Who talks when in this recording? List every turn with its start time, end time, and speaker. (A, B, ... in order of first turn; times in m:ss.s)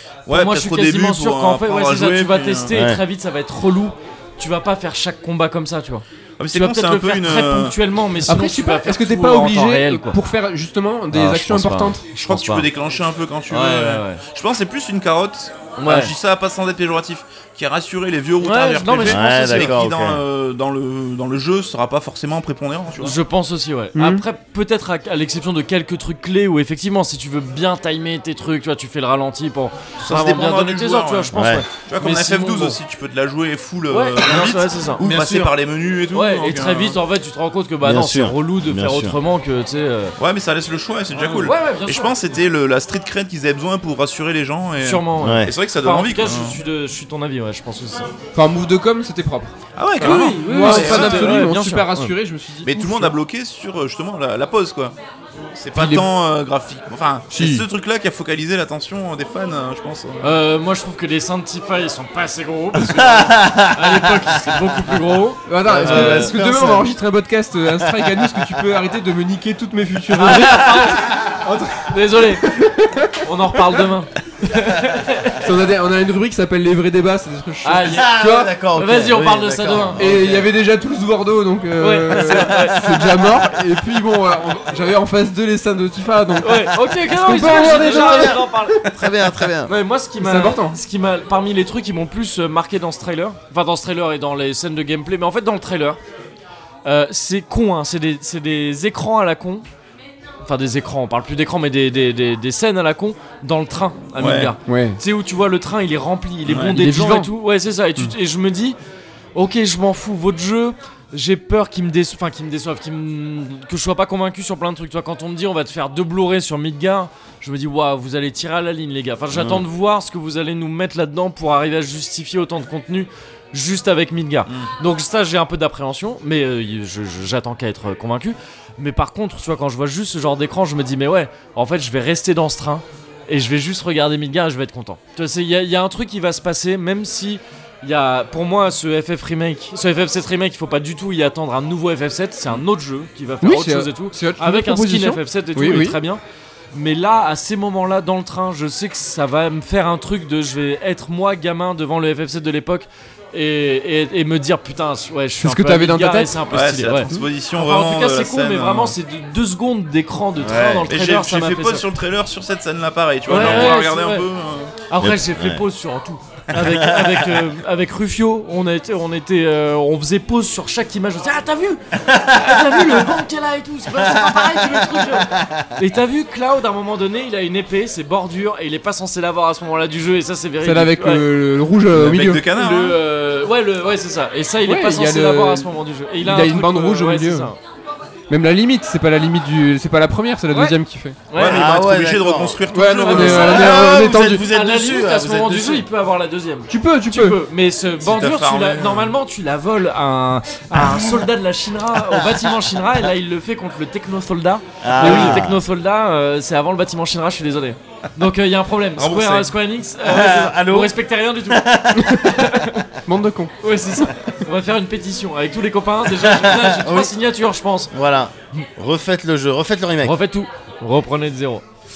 0:00.3-0:02.7 A
0:00.3-0:10.2 B
0:02.7-0:03.0 C
0:06.4-0:07.8 A
0:08.3-0:12.0 D
0:11.1-0:12.7 B
0:12.2-0:23.2 A
0:13.5-0:14.2 B
0:15.8-0:16.1 B
0:18.4-0:19.8 B
0:19.0-0:20.2 C
0:23.0-0:32.8 B
0:24.0-0:24.2 D
0:30.0-0:37.0 A
0:31.3-0:31.6 C
0:33.9-0:35.1 B
0:35.0-0:35.5 C
0:36.1-0:40.2 B
0:37.8-0:39.2 C
0:40.2-0:46.6 A
0:41.1-0:42.2 B
0:44.8-0:48.1 B
0:45.2-0:45.5 C
0:48.4-0:53.1 D
0:49.8-0:51.5 A
0:50.0-0:51.9 B
0:52.6-0:55.0 A
0:55.6-1:00.4 A
0:55.8-0:56.1 D
0:57.3-0:57.6 D
1:00.2-1:06.3 B
1:02.8-1:04.9 C
1:05.5-1:13.8 D
1:05.6-1:07.0 C
1:07.8-1:08.7 C
1:10.1-1:11.1 B
1:10.2-1:11.3 C
1:11.8-1:12.4 B
1:13.2-1:15.5 B
1:15.4-1:18.5 D
1:17.6-1:20.0 B
1:17.8-1:20.5 C
1:20.0-1:28.9 D
1:21.8-1:22.9 B
1:22.4-1:23.4 C
1:26.4-1:28.8 B
1:27.9-1:29.7 C
1:29.7-1:36.0 B
1:30.2-1:30.8 D
1:36.8-1:39.7 B
1:40.4-1:48.8 B
1:44.2-1:44.6 A
1:44.7-1:45.0 D
1:46.5-1:46.8 A
1:46.7-1:47.3 D
1:49.4-2:26.2 B
1:59.3-1:59.6 C
2:23.4-2:26.0 D
2:26.7-2:41.8 B
2:35.4-2:36.4 D
2:36.5-2:39.0 A
2:40.4-2:40.9 C
2:40.9-2:44.7 A
2:43.3-2:44.3 B
2:43.3-2:43.8 C
2:44.9-3:01.3 B
2:45.0-2:45.6 C
2:46.5-2:47.4 C
2:52.0-2:53.2 C
2:53.9-2:55.7 C
3:00.6-3:02.5 D
3:01.9-3:03.0 A
3:02.5-3:07.6 B
3:04.6-3:05.7 D
3:06.2-3:07.5 D
3:08.3-3:11.2 D
3:10.5-3:10.8 B
3:11.3-3:11.6 B
3:11.4-3:13.7 A
3:11.4-3:15.9 C
3:12.7-3:14.5 D
3:13.1-3:13.4 B
3:14.5-3:31.7 B
3:16.7-3:17.4 D
3:18.0-3:19.2 A
3:20.7-3:21.2 C
3:22.1-3:22.4 C
3:24.8-3:25.6 C
3:25.0-3:25.4 D
3:29.0-3:29.5 A
3:30.0-3:32.5 C
3:32.0-3:32.4 D
3:32.2-3:32.8 B
3:33.1-3:34.1 D
3:33.6-3:37.9 B
3:36.1-3:37.1 C
3:37.9-3:40.2 C
3:40.0-3:41.7 B